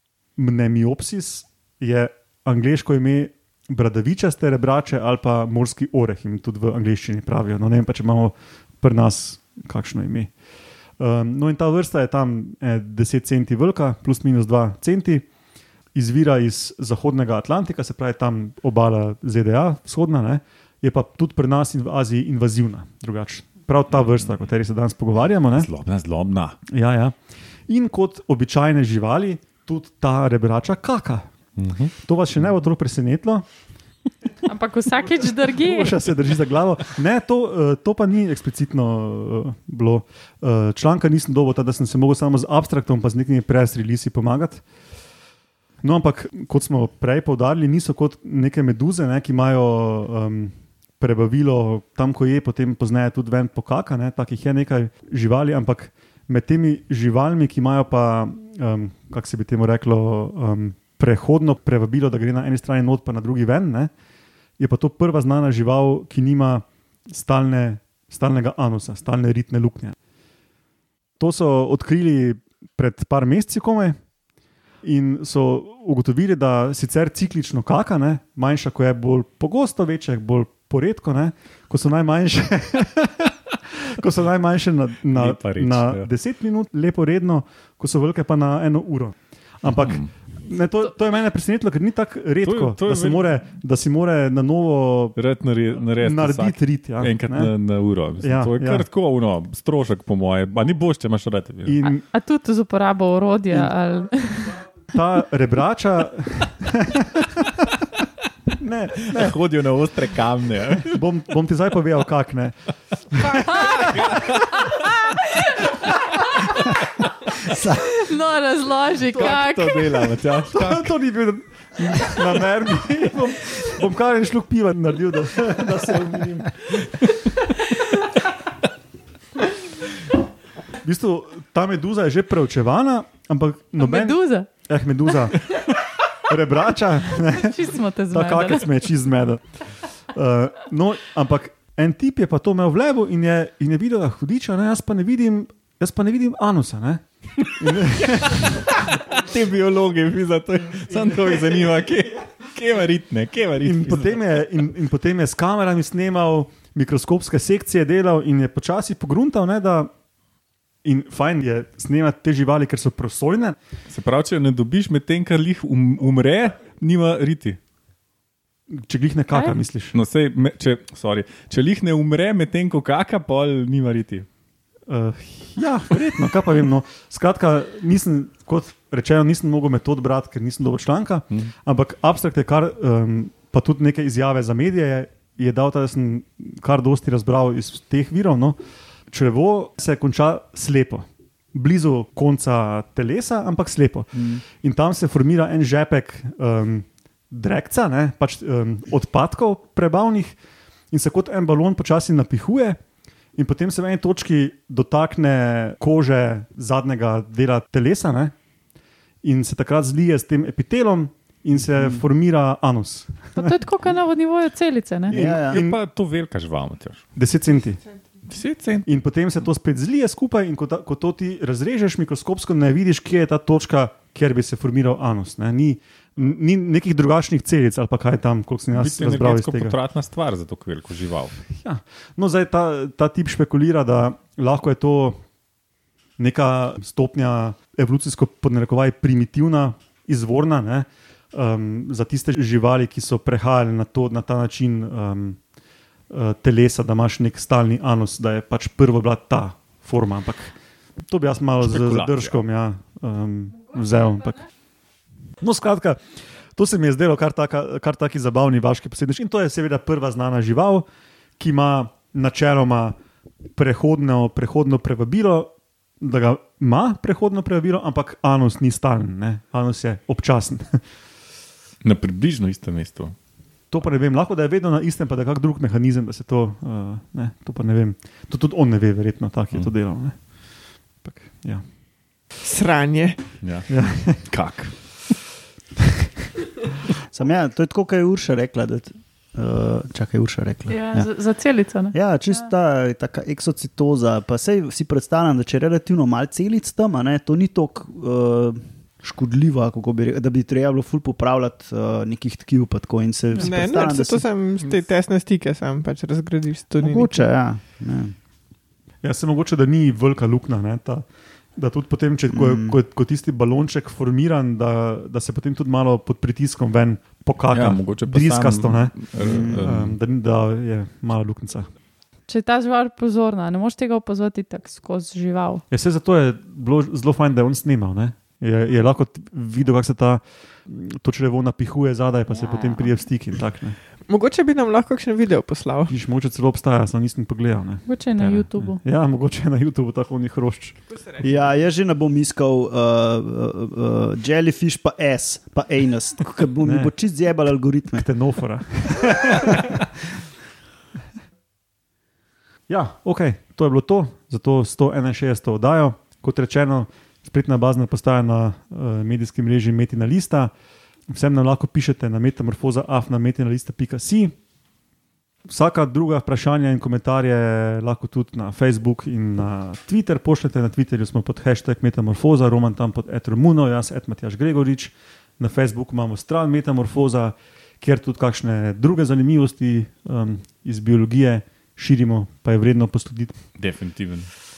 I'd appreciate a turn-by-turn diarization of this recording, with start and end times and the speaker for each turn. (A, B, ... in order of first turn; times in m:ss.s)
0:00.4-0:10.3 A
0:11.0-0:15.3 A
0:16.0-0:25.7 A
0:25.6-0:26.6 B
0:26.7-0:27.2 A
0:27.7-0:31.3 A
0:31.6-0:31.9 B
0:32.0-0:33.5 A
0:34.5-0:36.0 C
0:35.6-0:44.6 A
0:45.8-1:03.9 A
1:04.6-1:10.0 A
1:11.2-1:14.0 A
1:14.8-1:35.2 A
1:25.1-1:26.1 B
1:29.7-1:30.1 B
1:32.4-1:33.4 B
1:35.2-1:41.8 B
1:36.0-1:37.5 A
1:38.2-1:38.8 A
1:41.6-1:42.0 A
1:41.8-1:44.6 C
1:44.9-1:48.1 A
1:48.6-1:49.4 A
1:49.1-1:51.0 B
1:50.9-1:52.6 A
1:53.1-1:54.2 A
1:53.4-1:54.9 B
1:57.5-1:57.9 D
1:58.0-2:00.1 C
1:59.1-2:00.9 B
2:00.5-2:07.5 A
2:10.8-2:15.5 A
2:13.8-2:14.5 C
2:16.2-2:17.6 A
2:17.2-2:18.7 C
2:18.1-2:28.6 A
2:28.3-2:34.2 B
2:33.6-2:39.9 A
2:40.8-2:43.6 A
2:43.9-2:47.6 B
2:48.7-2:50.0 A
2:49.9-2:54.3 B
2:54.9-3:20.4 A
3:14.2-3:14.4 D
3:20.9-3:22.8 A
3:23.4-3:28.4 A
3:29.2-3:33.5 A
3:33.4-3:35.2 C
3:35.1-3:37.1 B
3:35.1-3:35.8 A
3:35.1-3:35.6 D
3:37.2-3:37.8 A
3:38.3-3:38.9 B
3:38.9-3:49.8 A
3:48.7-3:51.4 B
3:51.6-3:55.2 A
3:56.2-4:05.4 A
4:06.1-4:14.4 A
4:11.6-4:12.4 B
4:15.4-4:16.0 A
4:16.6-4:20.8 A
4:21.4-4:23.0 A
4:23.6-4:30.8 A
4:31.8-4:33.2 B
4:33.7-4:40.2 A
4:41.0-4:41.6 A
4:42.4-4:43.3 E
4:43.4-4:45.1 B
4:43.7-4:44.3 A
4:47.1-4:51.1 D
4:50.7-4:52.0 C
4:51.9-5:04.3 D
5:03.4-5:07.2 E
5:06.8-5:08.2 D
5:09.0-5:21.7 A
5:12.3-5:12.8 D
5:17.5-5:20.0 B
5:19.2-5:19.6 D
5:22.3-5:25.6 C
5:25.7-5:33.8 A
5:32.3-5:32.9 C
5:34.1-5:35.9 E
5:35.9-5:41.2 A
5:37.9-5:38.8 C
5:40.9-5:41.2 E
5:41.2-5:48.1 D
5:46.6-5:46.9 A
5:47.9-5:49.7 A
5:52.7-6:00.5 A
6:01.1-6:04.3 A
6:05.5-6:23.4 A
6:23.6-6:24.3 B